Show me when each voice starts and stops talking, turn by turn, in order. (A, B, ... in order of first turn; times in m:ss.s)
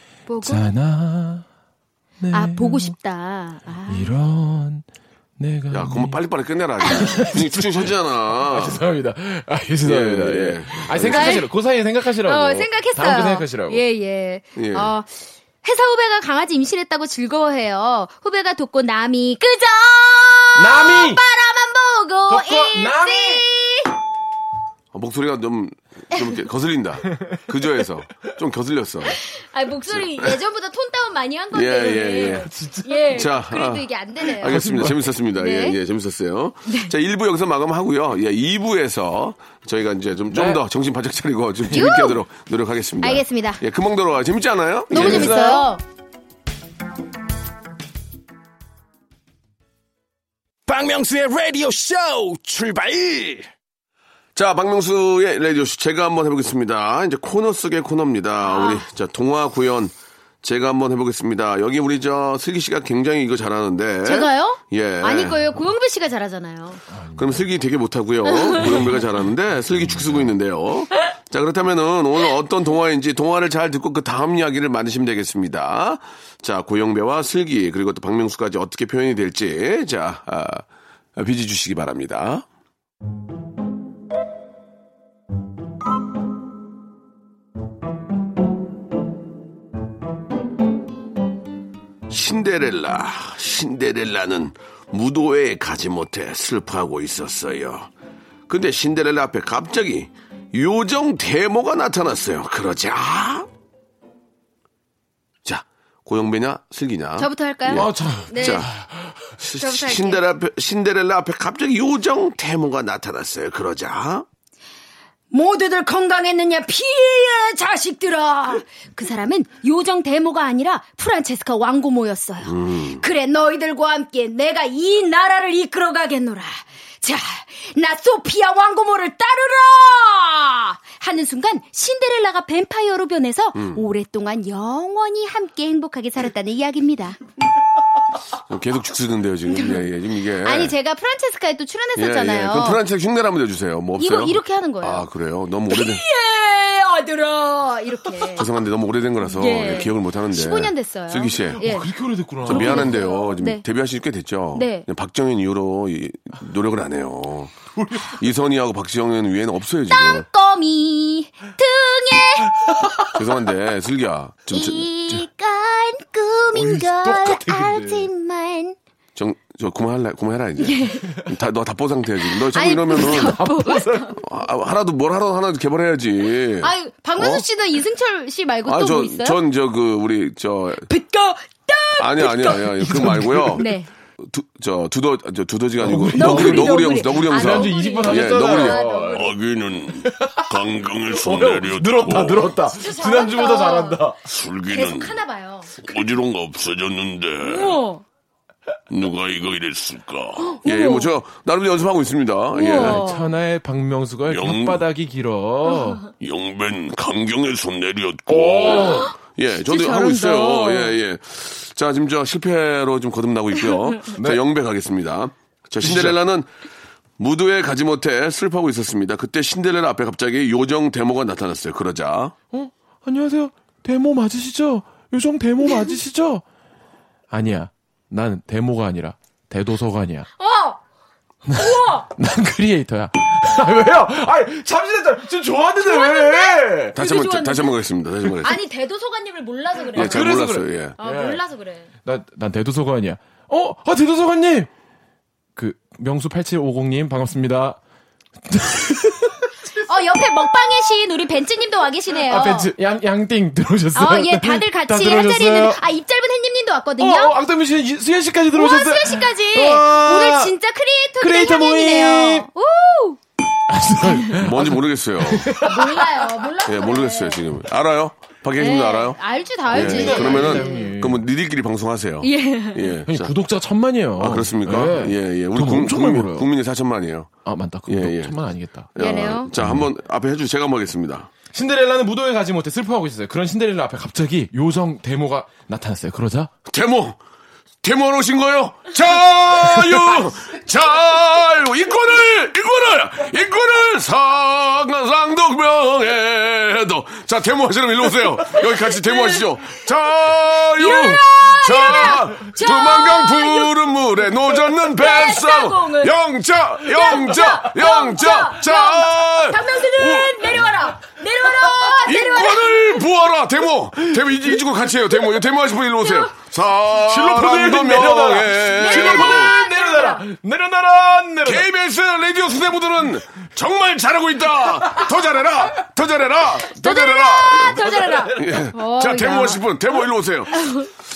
0:00.3-0:00.7 A
0:00.4-0:01.5 B
0:02.2-0:03.0 B
0:02.3-0:04.1 A
0:03.9-0:04.8 B
0:05.4-0:06.2 B
0:05.7-0:08.8 C
0:06.9-0:07.3 A
0:06.9-0:13.8 B
0:09.8-0:11.4 C
0:11.1-0:11.5 A
0:12.2-0:23.9 A
0:14.6-0:14.9 C
0:20.6-0:21.2 B
0:22.3-0:23.4 B
0:24.9-0:29.2 C
0:27.1-0:27.4 B
0:29.1-0:35.8 A
0:29.9-0:30.4 C
0:31.5-0:32.5 C
0:32.2-0:33.2 B
0:33.1-0:45.4 C
0:34.4-0:35.1 B
0:36.7-0:36.9 A
0:40.3-0:40.6 B
0:41.7-0:42.2 A
0:43.0-0:43.6 A
0:44.9-0:45.8 A
0:44.9-0:45.7 B
0:50.7-0:53.5 D
0:54.4-1:05.4 C
0:58.4-0:58.8 A
1:04.0-1:06.8 A
1:06.9-1:07.4 B
1:07.2-1:22.5 C
1:08.6-1:09.0 B
1:09.7-1:10.3 B
1:32.1-1:37.9 C
1:38.5-1:43.5 C
1:45.4-1:48.7 C
1:47.2-1:48.7 A
1:47.7-1:49.3 B
1:49.4-1:54.3 C
1:49.6-1:50.2 A
1:55.3-2:17.2 A
2:02.5-2:03.0 C
2:13.6-2:13.8 C
2:18.5-2:20.8 C
2:19.5-2:19.9 A
2:20.4-2:22.8 A
2:22.0-2:26.0 C
2:24.0-2:25.1 A
2:25.7-2:28.5 A
2:28.3-2:31.6 C
2:29.2-2:31.9 A
2:31.6-2:33.0 B
2:32.4-2:33.6 A
2:32.4-2:40.3 C
2:34.5-2:34.9 A
2:37.8-2:38.1 B
2:39.9-2:42.5 A
2:42.7-2:43.2 B
2:43.1-2:45.2 C
2:44.5-2:48.8 A
2:46.5-2:48.1 B
2:49.2-2:53.4 C
2:50.6-2:51.1 A
2:52.3-2:54.1 A
2:52.9-2:54.2 B
2:54.2-2:57.4 C
2:56.6-2:59.4 A
2:58.7-3:00.9 C
3:00.9-3:02.8 A
3:02.0-3:03.7 C
3:02.5-3:03.7 B
3:03.6-3:03.9 A
3:04.2-3:12.6 C
3:05.8-3:09.3 B
3:06.1-3:09.4 A
3:09.9-3:14.2 B
3:12.6-3:14.1 A
3:14.2-3:15.2 C
3:14.7-3:15.8 A
3:15.8-3:17.8 C
3:17.4-3:18.0 A
3:18.9-3:23.1 C
3:20.4-3:21.1 A
3:22.6-3:23.2 A
3:22.7-3:26.0 B
3:24.3-3:24.8 C
3:26.2-3:36.5 C
3:28.3-3:29.1 B
3:28.7-3:29.1 A
3:29.6-3:31.0 A
3:34.2-3:34.4 B
3:35.8-3:36.2 B
3:37.2-3:42.3 C
3:42.5-3:46.4 B
3:47.3-3:50.3 B
3:50.4-3:50.8 A
3:51.5-3:57.0 B
3:51.5-3:52.1 A
3:55.8-3:57.8 A
3:56.9-3:58.6 C
3:58.4-4:00.4 A
3:59.9-4:01.4 B
4:00.0-4:01.0 C
4:01.0-4:01.9 A
4:02.0-4:04.7 B
4:05.6-4:07.8 B
4:08.5-4:09.5 B
4:09.8-4:12.7 A
4:12.2-4:15.8 B
4:14.0-4:17.3 A
4:17.0-4:20.5 B
4:18.5-4:23.2 A
4:21.2-4:22.5 B
4:23.7-4:26.3 B
4:24.3-4:25.6 C
4:25.6-4:27.4 A
4:26.6-4:29.2 C
4:28.6-4:30.9 A
4:29.7-4:31.2 B
4:29.7-4:33.3 C
4:32.2-4:32.9 A
4:33.1-4:36.5 B
4:34.2-4:37.3 C
4:37.4-4:38.9 B
4:37.9-4:38.4 C
4:39.0-4:41.3 C
4:39.0-4:39.5 A
4:39.6-4:39.9 B
4:41.5-4:46.5 B
4:46.7-4:47.2 C
4:47.8-5:10.6 C
4:58.8-4:59.5 A
5:00.8-5:03.7 A
5:04.8-5:06.2 A
5:06.9-5:13.0 A
5:11.4-5:12.0 B
5:12.0-5:19.5 C
5:16.9-5:21.7 B
5:18.7-5:20.2 A
5:21.4-5:30.9 C
5:24.8-5:25.1 B
5:26.7-5:29.6 A
5:27.8-5:28.6 B
5:30.5-5:30.9 A